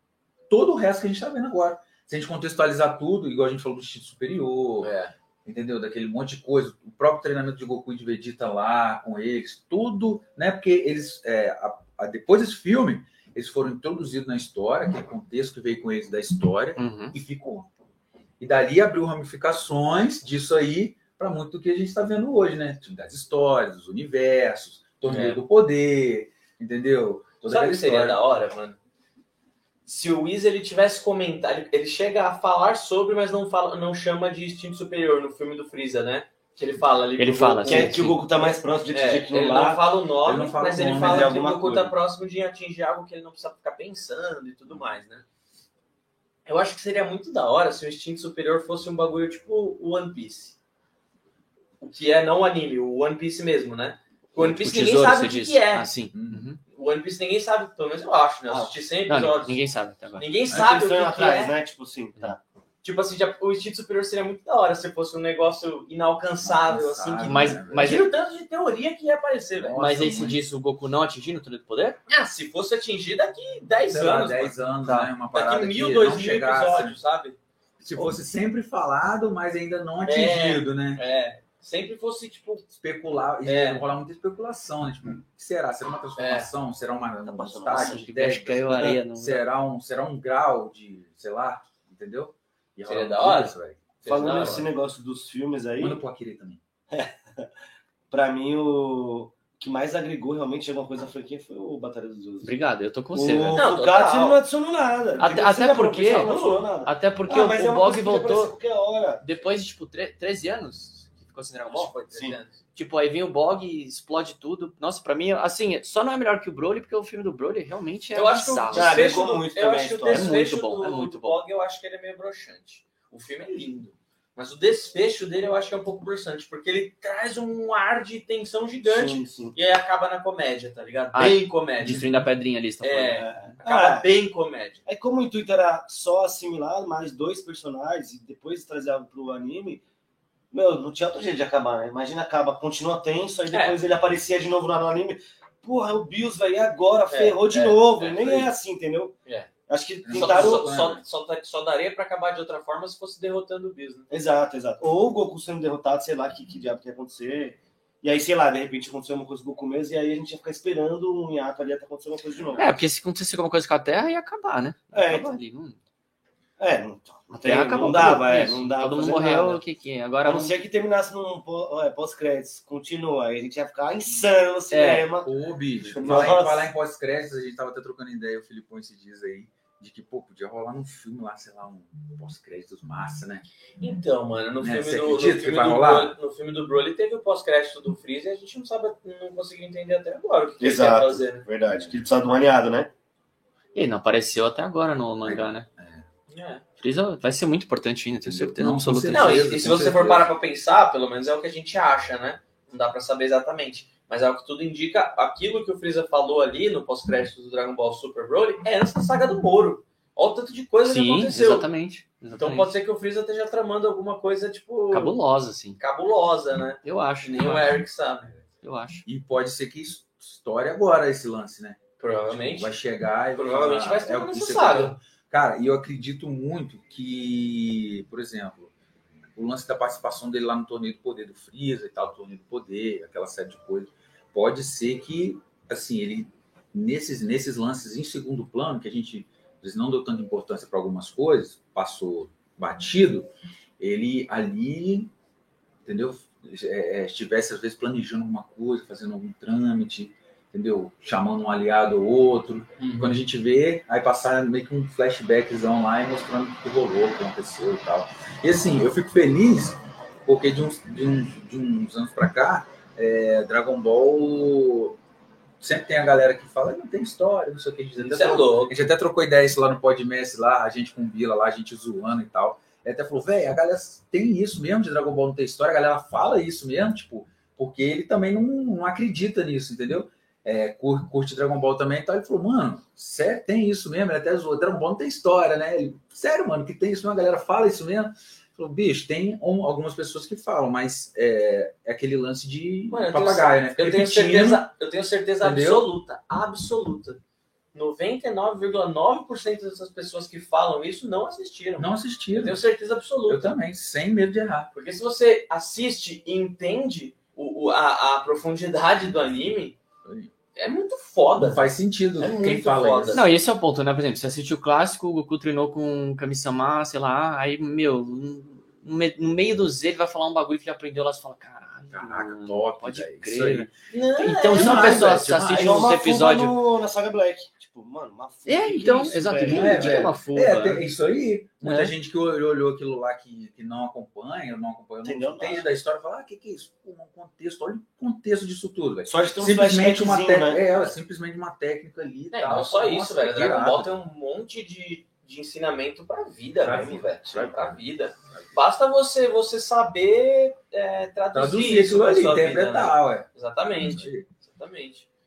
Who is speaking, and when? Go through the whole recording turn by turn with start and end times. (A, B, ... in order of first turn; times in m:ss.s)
0:00.5-0:04.9 A
0:04.8-0:05.1 B
0:05.4-0:17.7 A
0:16.8-0:17.2 C
0:18.4-0:28.2 A
0:25.0-0:25.4 B
0:27.5-0:28.8 B
0:29.9-0:38.0 B
0:37.2-0:38.2 C
0:37.6-0:39.8 D
0:38.9-0:45.2 B
0:40.2-0:41.9 A
0:40.8-0:41.9 D
0:46.5-0:50.6 B
0:51.8-0:55.9 B
0:54.4-0:56.6 C
0:56.1-0:56.5 A
0:56.7-0:59.6 B
0:58.5-0:58.8 D
0:59.1-1:00.2 C
1:00.2-1:01.6 B
1:00.5-1:02.4 D
1:02.8-1:09.8 B
1:06.4-1:07.9 A
1:07.2-1:08.1 C
1:09.6-1:10.4 A
1:09.8-1:12.0 C
1:12.1-1:14.6 B
1:13.9-1:17.0 A
1:14.8-1:15.1 C
1:15.3-1:17.4 B
1:17.8-1:21.0 A
1:20.0-1:22.7 B
1:22.7-1:34.6 A
1:23.4-1:23.8 B
1:26.2-1:26.5 B
1:27.2-1:28.0 D
1:27.6-1:29.4 C
1:32.9-1:34.7 B
1:34.0-1:36.0 D
1:35.8-1:36.6 A
1:36.9-1:37.5 D
1:38.1-1:42.5 D
1:42.4-1:43.7 C
1:43.1-1:49.2 D
1:43.5-1:44.4 B
1:45.2-1:46.3 C
1:46.1-1:46.7 B
1:46.8-1:48.6 C
1:49.2-1:51.9 C
1:51.7-1:52.6 B
1:52.1-1:52.4 D
1:52.8-1:59.1 C
1:58.2-2:12.1 B
1:58.7-2:00.3 D
2:00.1-2:01.4 C
2:08.8-2:09.6 D
2:11.1-2:13.3 C
2:12.8-2:14.8 B
2:13.2-2:14.1 D
2:14.9-2:19.8 D
2:20.5-2:29.2 D
2:23.5-2:23.8 B
2:27.1-2:28.5 B
2:29.7-2:30.7 D
2:30.0-2:31.0 A
2:30.1-2:34.1 B
2:34.1-2:42.8 D
2:42.6-2:45.8 C
2:44.9-2:45.4 D
2:46.6-2:49.6 D
2:47.3-2:50.5 C
2:50.2-2:55.3 D
2:54.7-2:55.1 C
2:55.2-3:03.4 A
2:55.8-2:56.7 D
3:03.8-3:11.5 B
3:04.6-3:06.2 A
3:10.6-3:12.9 D
3:13.8-3:15.7 C
3:15.2-3:16.0 A
3:16.3-3:16.6 B
3:16.8-3:19.5 C
3:18.2-3:20.3 A
3:19.1-3:31.7 B
3:30.8-3:32.7 C
3:32.4-3:35.2 B
3:34.9-3:35.8 C
3:35.8-3:38.3 B
3:36.8-3:37.8 C
3:38.6-3:39.0 C
3:39.1-3:48.7 A
3:42.0-3:42.7 B
3:43.3-3:45.0 B
3:49.4-4:05.1 A
4:05.8-4:25.0 A
4:12.8-4:13.2 B
4:25.6-4:54.7 A
4:28.0-4:28.7 B
4:52.9-4:57.2 B
4:55.4-4:55.9 A
4:57.7-5:03.6 B
5:01.8-5:02.6 A
5:03.3-5:04.7 A
5:04.7-5:09.8 B
5:10.0-5:10.3 A
5:10.6-5:13.2 B
5:11.4-5:13.3 A
5:13.1-5:26.6 C
5:21.9-5:23.7 A
5:23.9-5:25.2 B
5:24.5-5:25.8 A
5:25.4-5:30.1 D
5:28.5-5:30.9 C
5:29.4-5:43.9 A
5:31.6-5:31.9 C
5:35.0-5:35.7 D
5:39.1-5:40.7 D
5:42.3-5:55.0 B
5:46.6-5:48.5 A
5:51.3-5:53.3 A
5:53.8-5:54.3 A